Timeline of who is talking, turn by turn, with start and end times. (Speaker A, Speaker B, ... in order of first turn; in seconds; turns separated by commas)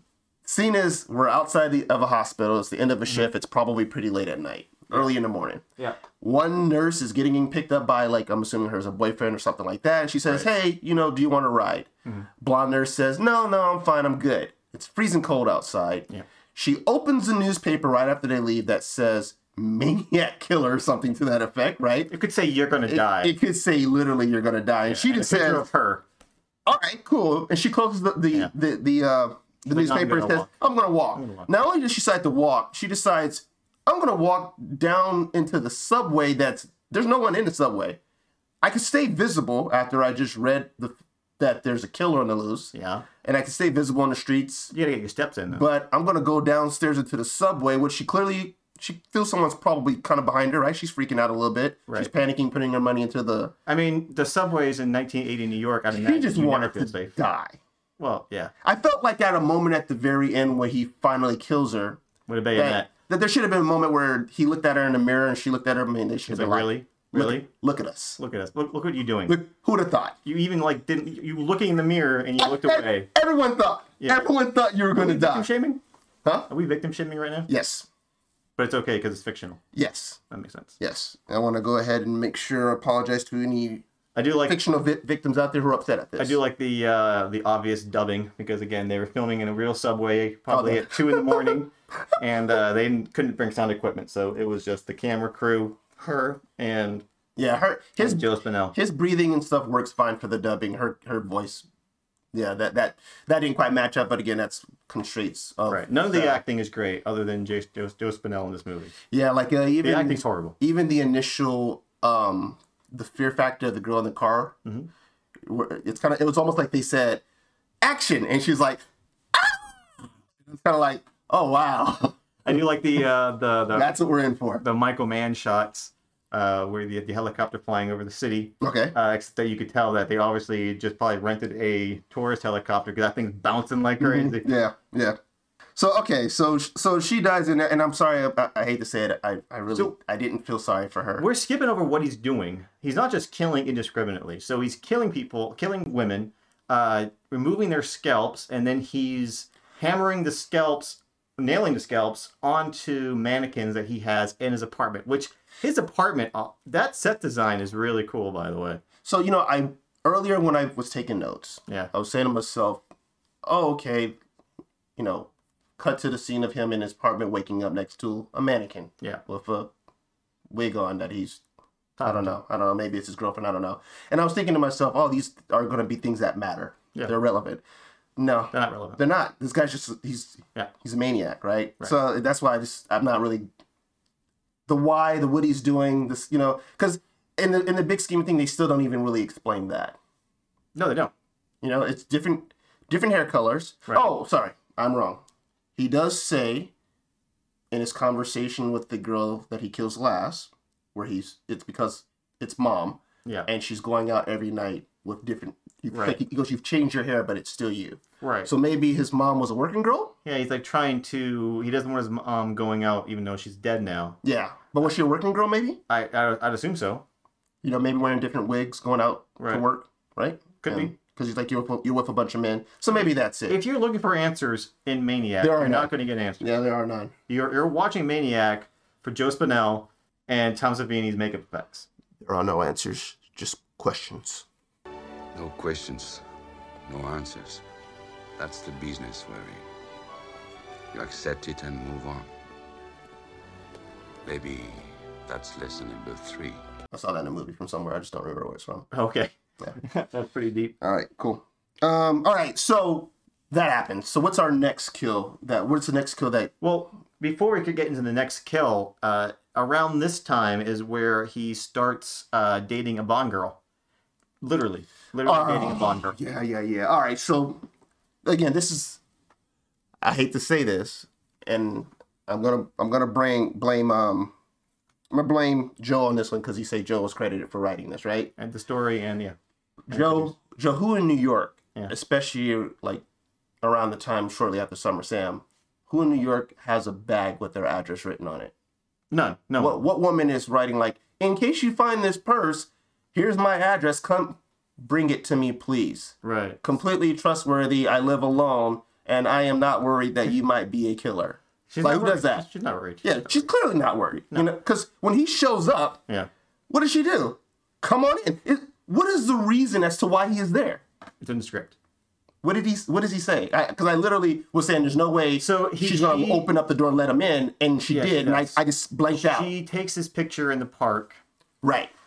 Speaker A: 0.4-5.6, Speaker A: 6.2-22.1, Speaker B: 22.1-23.3, Speaker A: 22.9-25.7, Speaker B: 24.9-26.0, Speaker A: 26.6-38.0, Speaker B: 29.7-30.5, Speaker B: 31.1-31.5, Speaker A: 38.6-42.7, Speaker B: 42.7-43.1, Speaker A: 43.2-44.7, Speaker B: 44.7-45.6, Speaker A: 45.5-53.5, Speaker B: 53.7-57.2, Speaker A: 55.9-57.6, Speaker B: 58.0-58.5, Speaker A: 58.6-62.0, Speaker B: 62.3-62.9, Speaker A: 62.5-68.2, Speaker B: 66.3-67.5, Speaker B: 68.2-69.4, Speaker A: 69.3-70.2, Speaker B: 70.2-73.1, Speaker A: 72.4-75.5, Speaker B: 74.0-74.2, Speaker B: 75.0-75.8, Speaker A: 76.2-76.5, Speaker B: 76.5-77.5, Speaker A: 77.5-77.9, Speaker B: 78.6-79.6, Speaker A: 79.7-80.2, Speaker B: 80.3-80.8, Speaker A: 80.8-83.8, Speaker B: 84.2-84.6, Speaker A: 84.5-86.4, Speaker B: 86.2-97.0, Speaker A: 90.5-91.6, Speaker A: 97.4-101.7, Speaker B: 98.0-98.8, Speaker A: 102.3-106.4, Speaker B: 105.7-108.9, Speaker A: 109.1-114.5, Speaker B: 109.8-110.6, Speaker A: 115.5-117.2, Speaker A: 117.8-118.8, Speaker A: 119.3-119.9, Speaker A: 120.4-122.7, Speaker B: 122.5-124.0, Speaker A: 123.7-124.6, Speaker B: 124.6-134.5, Speaker A: 128.6-128.9, Speaker A: 134.0-135.2, Speaker A: 135.8-141.3, Speaker B: 141.2-158.8, Speaker A: 159.0-162.8, Speaker A: 163.4-164.2, Speaker A: 165.0-169.7, Speaker A: 170.5-171.4, Speaker B: 172.0-172.3, Speaker A: 172.0-177.6, Speaker A: 178.2-183.5, Speaker B: 178.5-179.0, Speaker A: 184.7-190.0, Speaker B: 190.8-191.1, Speaker A: 191.6-195.2, Speaker A: 195.8-196.7, Speaker A: 197.7-210.2, Speaker B: 205.9-206.2, Speaker B: 208.2-208.5, Speaker B: 210.2-214.2, Speaker A: 214.2-215.8, Speaker B: 215.9-217.1, Speaker A: 217.6-223.6, Speaker B: 219.4-219.6, Speaker B: 220.6-220.9, Speaker B: 223.5-226.4, Speaker A: 225.4-227.1, Speaker B: 227.3-231.9, Speaker A: 232.2-234.4, Speaker C: 235.3-236.2, Speaker C: 236.9-237.6, Speaker C: 238.4-239.6, Speaker C: 240.9-242.3, Speaker C: 244.2-246.6, Speaker A: 246.9-248.9, Speaker B: 248.9-250.8, Speaker A: 250.8-256.5, Speaker B: 256.6-263.6, Speaker B: 264.4-266.2, Speaker A: 265.2-267.7, Speaker A: 268.2-269.0, Speaker A: 270.0-274.3, Speaker A: 275.1-278.3, Speaker B: 278.4-279.4, Speaker A: 279.9-283.0, Speaker B: 279.9-280.3, Speaker A: 283.6-288.5, Speaker B: 289.1-289.8, Speaker A: 289.6-302.5, Speaker B: 296.2-296.6, Speaker B: 301.7-303.5, Speaker A: 303.0-306.0, Speaker A: 306.7-310.8, Speaker B: 311.2-311.8, Speaker A: 312.4-319.5, Speaker B: 315.4-316.5, Speaker B: 317.9-318.6, Speaker B: 319.1-321.2, Speaker A: 321.6-321.9